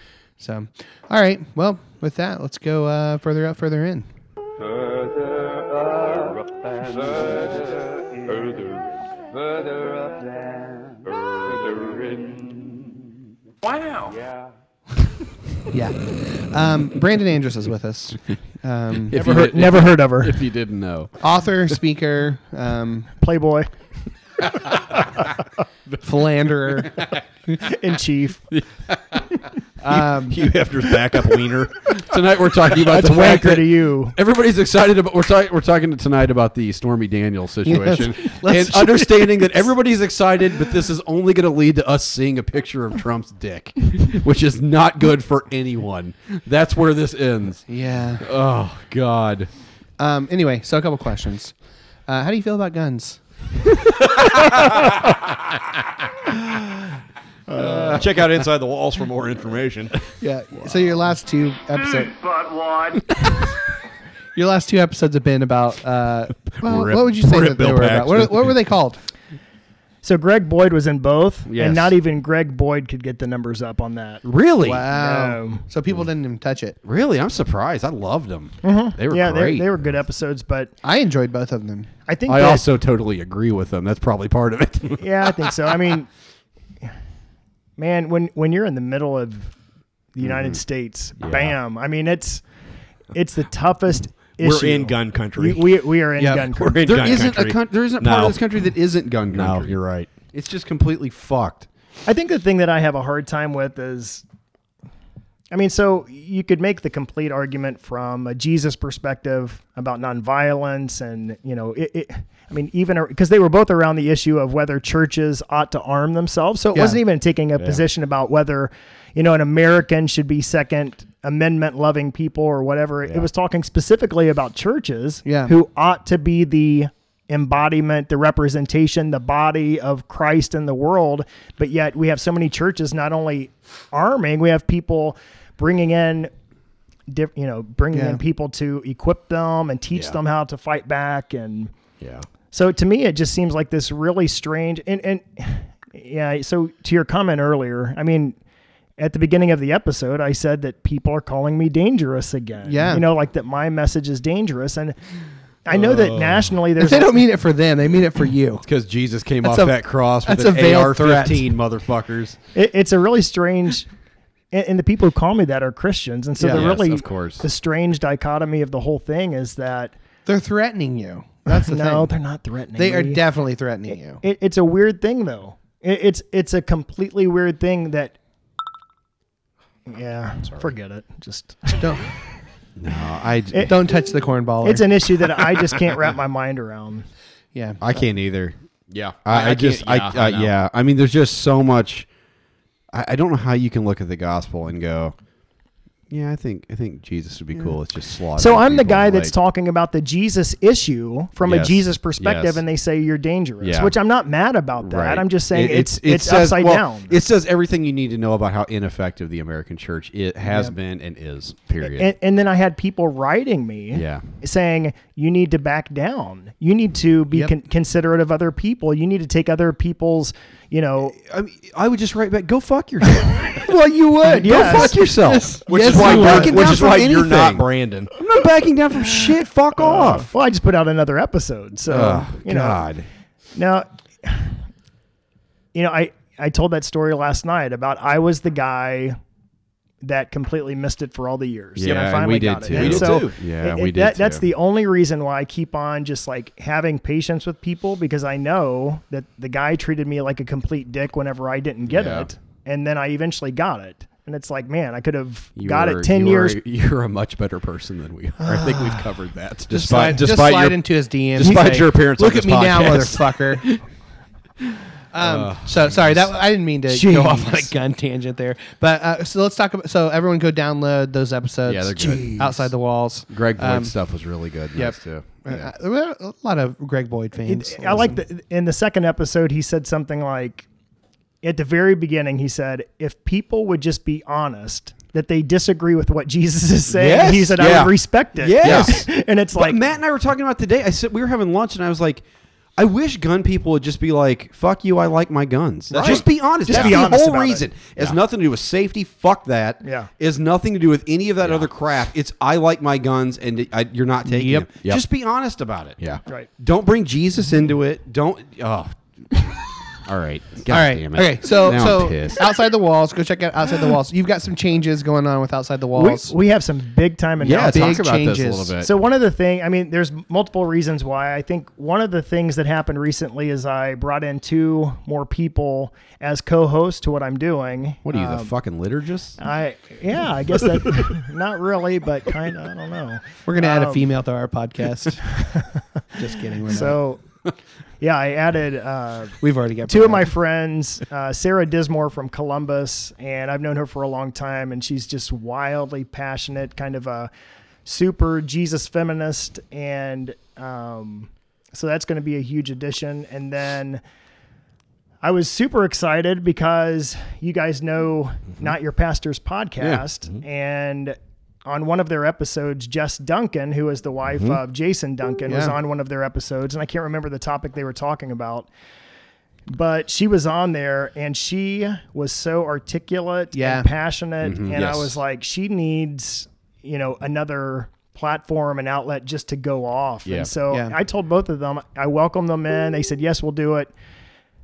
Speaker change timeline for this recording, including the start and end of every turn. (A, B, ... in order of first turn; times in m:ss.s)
0:00.4-0:04.1 A
0:13.6-0:14.2 B
0:15.7-0:19.3 A
0:19.1-0:21.2 C
0:19.2-0:20.4 D
0:21.2-0:23.1 A
0:23.2-0:23.7 D
0:26.0-0:27.1 A
0:27.6-0:28.4 D
0:28.5-0:29.2 C
0:29.9-0:30.5 A
0:30.3-0:32.0 E
0:31.9-0:47.7 C
0:32.8-0:34.2 D
0:37.6-0:39.5 A
0:47.7-0:48.3 A
0:48.2-0:49.5 C
0:50.0-0:51.6 A
0:52.1-0:53.2 A
0:57.6-0:59.9 E
0:57.6-0:57.9 A
0:57.7-0:58.0 C
1:00.2-1:02.1 A
1:01.7-1:03.1 B
1:04.4-1:09.0 A
1:06.6-1:08.6 E
1:10.0-1:14.2 D
1:11.5-1:11.9 C
1:14.2-1:14.9 C
1:14.6-1:16.8 A
1:14.9-1:15.6 D
1:16.8-1:19.7 C
1:18.6-1:20.7 D
1:20.8-1:21.9 A
1:22.1-1:22.7 D
1:22.3-1:25.0 C
1:25.0-1:26.1 D
1:27.8-1:29.5 D
1:30.2-1:32.4 D
1:31.2-1:31.6 E
1:33.1-1:37.1 D
1:34.4-1:35.8 E
1:36.5-1:38.4 E
1:36.8-1:39.8 C
1:39.3-1:40.1 E
1:40.3-1:41.7 C
1:42.1-1:44.2 D
1:45.5-2:16.3 D
1:56.7-1:57.0 A
2:05.2-2:05.5 A
2:17.1-2:21.7 D
2:17.9-2:18.2 A
2:22.0-2:22.3 E
2:22.5-2:28.4 D
2:29.0-2:35.0 D
2:32.7-2:33.1 A
2:35.6-2:37.2 D
2:35.8-2:36.5 E
2:36.8-2:38.7 A
2:38.6-2:42.4 C
2:39.4-2:41.6 A
2:42.6-2:43.9 D
2:44.5-2:49.9 D
2:46.4-2:46.7 A
2:46.5-2:47.4 C
2:50.3-2:52.1 A
2:51.5-2:53.2 D
2:52.8-2:54.2 A
2:54.2-2:58.2 D
2:59.9-3:01.9 D
3:01.8-3:02.1 A
3:02.8-3:03.7 C
3:03.7-3:05.0 A
3:04.6-3:07.1 D
3:07.5-3:07.8 A
3:07.8-3:08.6 C
3:08.9-3:10.6 E
3:09.2-3:12.1 C
3:12.9-3:15.2 C
3:16.1-3:19.3 C
3:18.4-3:27.1 D
3:21.4-3:22.6 C
3:23.6-3:23.9 C
3:24.8-3:32.1 C
3:31.8-3:41.1 D
3:33.9-3:34.2 C
3:41.3-3:43.6 C
3:43.5-3:44.9 D
3:44.2-3:46.8 A
3:44.4-3:50.3 C
3:45.6-3:48.1 E
3:49.8-3:52.9 D
3:51.9-3:53.1 C
3:53.6-3:54.6 D
3:55.7-3:59.2 D
4:00.0-4:16.6 D
4:01.8-4:04.4 C
4:01.8-4:03.5 E
4:11.9-4:12.3 C
4:15.6-4:20.2 C
4:19.7-4:23.4 E
4:19.7-4:23.7 A
4:25.1-4:34.0 A
4:25.2-4:26.1 E
4:26.9-4:27.6 D
4:31.7-4:32.6 C
4:33.3-4:35.7 C
4:34.8-4:38.2 A
4:37.4-4:40.7 D
4:41.4-4:49.8 D
4:47.0-4:52.2 C
4:48.6-4:49.0 E
4:52.8-5:09.4 C
4:55.9-4:57.6 D
4:56.0-4:57.1 E
4:59.8-5:00.1 D
5:01.4-5:01.7 E
5:04.2-5:04.7 A
5:10.0-5:12.4 C
5:10.7-5:16.3 A
5:15.9-5:18.1 D
5:17.4-5:18.9 C
5:17.6-5:18.8 A
5:18.8-5:28.5 D
5:28.1-5:29.4 C
5:29.4-5:34.1 D
5:33.4-5:35.6 A
5:36.2-5:37.0 A
5:36.7-5:37.2 D
5:38.0-5:47.3 D
5:39.4-5:40.3 A
5:47.8-5:54.0 D
5:55.2-6:08.7 D
6:04.3-6:04.6 E
6:05.5-6:05.8 A
6:09.7-6:23.9 D
6:13.5-6:13.9 A
6:14.4-6:15.0 C
6:20.7-6:21.0 A